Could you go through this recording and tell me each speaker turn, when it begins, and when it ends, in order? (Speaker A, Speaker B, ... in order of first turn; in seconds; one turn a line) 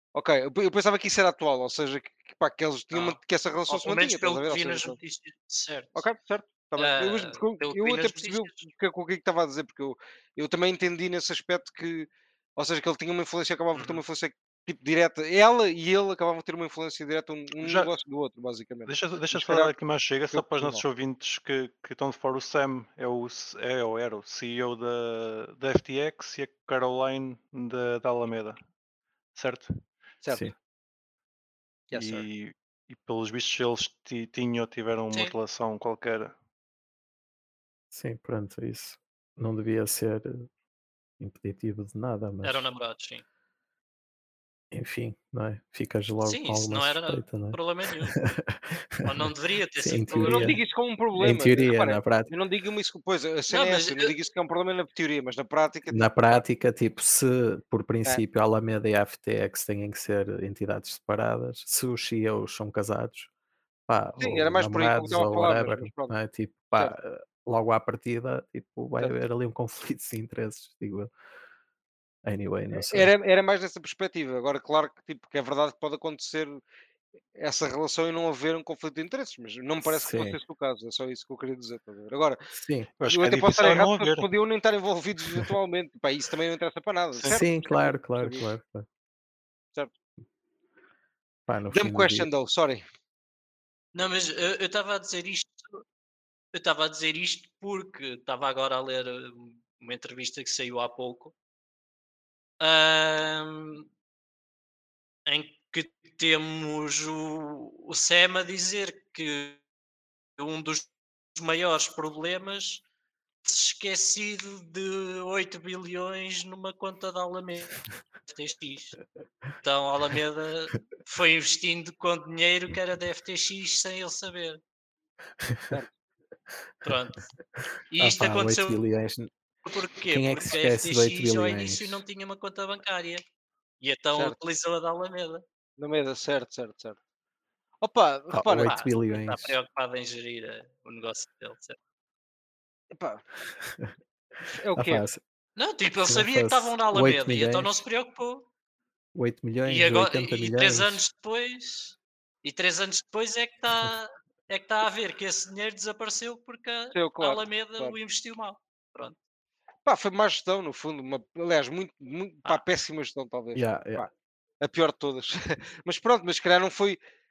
Speaker A: 0.1-5.0
Speaker B: 2.9-3.2
Speaker B: 3.7-6.0
Speaker A: 6.0-19.7
Speaker B: 6.8-8.7
Speaker C: 17.6-17.9
Speaker C: 18.9-28.6
Speaker A: 20.3-20.8
Speaker C: 29.4-29.7
Speaker A: 30.2-30.5
Speaker A: 31.9-32.3
Speaker C: 31.9-36.4
Speaker D: 37.9-40.5
Speaker D: 41.2-42.7
Speaker B: 42.4-43.2
Speaker D: 44.7-47.6
Speaker B: 46.2-48.2
Speaker D: 48.1-50.6
Speaker B: 49.0-50.6
Speaker A: 50.1-56.4
Speaker D: 51.1-52.3
Speaker B: 53.5-54.1
Speaker D: 55.9-63.3
Speaker D: 63.9-71.1
Speaker A: 64.2-66.2
Speaker D: 72.2-73.1
Speaker A: 72.7-76.6
Speaker A: 77.4-82.4
Speaker D: 79.8-80.4
Speaker D: 82.5-82.9
Speaker C: 83.0-84.3
Speaker A: 83.1-88.5
Speaker C: 87.1-87.4
Speaker D: 87.3-88.9
Speaker D: 91.5-92.3
Speaker A: 91.7-92.8
Speaker B: 93.9-95.8
Speaker B: 96.5-101.3
Speaker B: 102.6-103.9
Speaker B: 105.3-109.6
Speaker B: 110.4-112.8
Speaker B: 113.5-119.0
Speaker B: 119.6-124.6
Speaker B: 126.8-127.2
Speaker B: 127.9-128.8
Speaker D: 128.0-129.3
Speaker B: 129.7-133.2
Speaker D: 130.1-132.0
Speaker B: 133.8-135.4
Speaker A: 135.8-137.0
Speaker A: 137.8-138.7
Speaker D: 138.3-139.6
Speaker B: 138.5-141.8
Speaker A: 142.9-143.2
Speaker D: 143.6-143.9
Speaker A: 144.6-145.1
Speaker D: 144.8-145.2
Speaker B: 145.6-148.4
Speaker D: 146.1-147.8
Speaker D: 149.2-151.0
Speaker B: 149.7-159.2
Speaker A: 156.9-158.0
Speaker A: 159.8-164.1
Speaker D: 163.6-164.1
Speaker A: 164.6-167.0